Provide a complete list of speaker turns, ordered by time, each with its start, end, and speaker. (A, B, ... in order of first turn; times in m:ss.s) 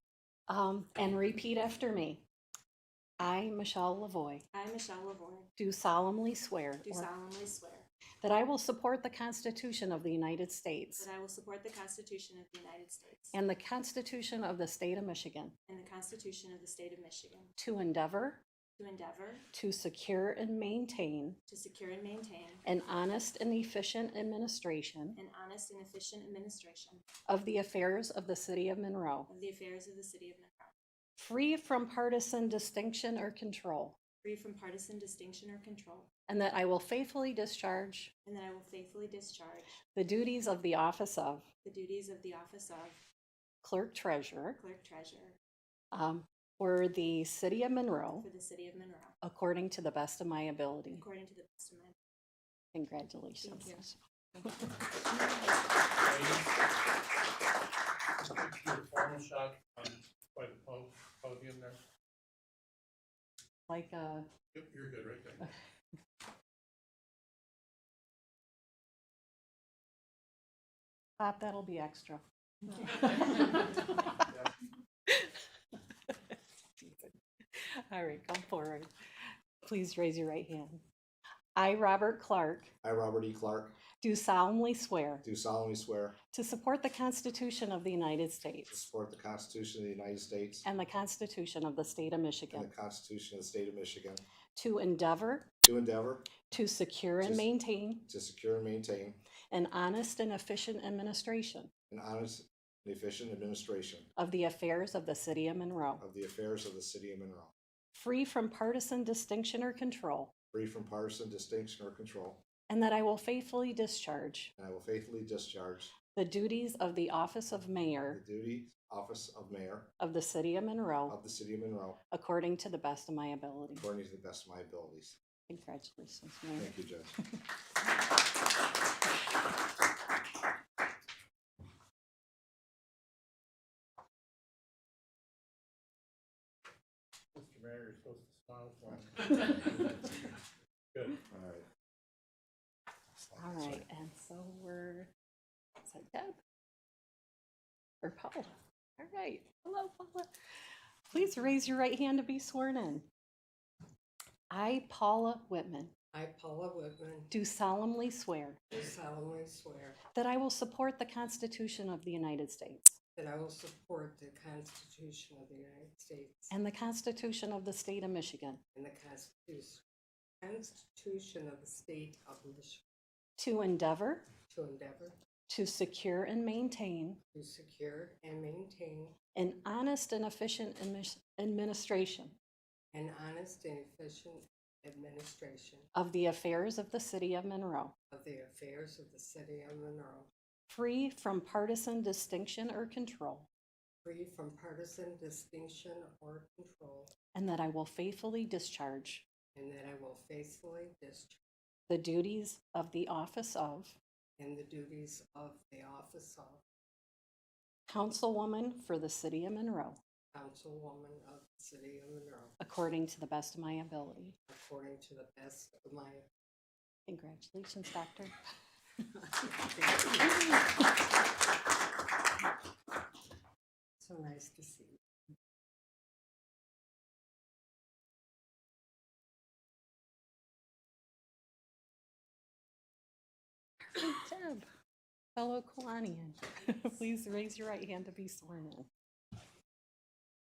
0:00.5-0:02.2 A
0:03.2-0:04.4 A
0:04.5-0:05.5 B
0:05.6-0:07.1 A
0:06.8-0:07.9 B
0:08.2-0:11.1 A
0:11.0-0:13.4 B
0:13.3-0:15.5 A
0:15.7-0:17.5 B
0:17.6-0:18.4 A
0:18.8-0:19.4 B
0:19.5-0:21.4 A
0:21.5-0:22.6 B
0:22.6-0:25.2 A
0:25.1-0:27.0 B
0:27.3-0:29.3 A
0:29.3-0:30.7 B
0:31.2-0:34.0 A
0:34.2-0:36.1 B
0:36.3-0:38.1 A
0:38.2-0:39.8 B
0:40.0-0:41.5 A
0:41.6-0:43.0 B
0:43.6-0:44.6 A
0:44.6-0:45.4 B
0:45.9-0:48.3 A
0:48.2-0:49.2 B
0:49.2-0:51.0 A
0:50.9-0:52.0 B
0:52.7-0:54.0 A
0:53.4-0:54.6 B
0:56.0-0:56.5 C
0:58.2-1:01.8 C
1:03.7-1:04.3 A
1:04.5-1:05.5 C
1:11.2-1:14.1 A
1:16.8-1:18.9 A
1:19.6-1:20.8 A
1:21.6-1:22.7 A
1:22.8-1:23.8 D
1:24.0-1:25.2 A
1:25.2-1:26.2 D
1:26.3-1:28.8 A
1:28.7-1:30.7 D
1:30.6-1:32.7 A
1:32.5-1:34.2 D
1:34.6-1:35.5 A
1:35.6-1:36.3 D
1:36.4-1:38.1 A
1:37.2-1:37.5 D
1:38.1-1:39.2 D
1:39.5-1:41.7 A
1:41.9-1:44.1 D
1:44.2-1:46.0 A
1:46.0-1:47.5 D
1:47.9-1:50.3 A
1:50.5-1:52.4 D
1:52.7-1:54.5 A
1:54.6-1:55.9 D
1:56.1-1:58.2 A
1:58.1-1:59.9 D
2:00.0-2:01.2 A
2:01.1-2:02.0 D
2:02.1-2:03.9 A
2:03.8-2:05.2 D
2:05.5-2:06.7 A
2:06.6-2:07.1 D
2:17.3-2:20.0 C
2:20.9-2:21.2 C
2:21.3-2:21.7 D
2:23.3-2:25.1 A
2:25.8-2:26.4 A
2:28.0-2:30.3 A
2:31.1-2:33.1 A
2:34.5-2:35.9 A
2:36.1-2:37.3 E
2:37.3-2:38.6 A
2:38.7-2:40.0 E
2:40.1-2:43.0 A
2:43.2-2:46.5 E
2:46.5-2:48.6 A
2:48.7-2:49.8 E
2:50.4-2:52.8 E
2:53.4-2:54.2 A
2:54.5-2:55.1 E
2:55.5-2:57.2 A
2:57.3-2:59.2 E
2:59.3-3:02.3 A
3:02.9-3:05.9 E
3:05.9-3:07.9 A
3:08.1-3:10.3 E
3:10.7-3:13.5 A
3:14.0-3:17.1 E
3:17.3-3:19.2 A
3:19.5-3:21.4 E
3:21.9-3:24.0 A
3:24.4-3:26.6 E
3:27.9-3:30.0 A
3:30.3-3:32.5 E
3:32.6-3:34.4 A
3:34.5-3:36.2 E
3:37.1-3:38.3 A
3:44.0-3:45.0 E
3:53.9-3:54.7 A
3:55.4-3:58.9 A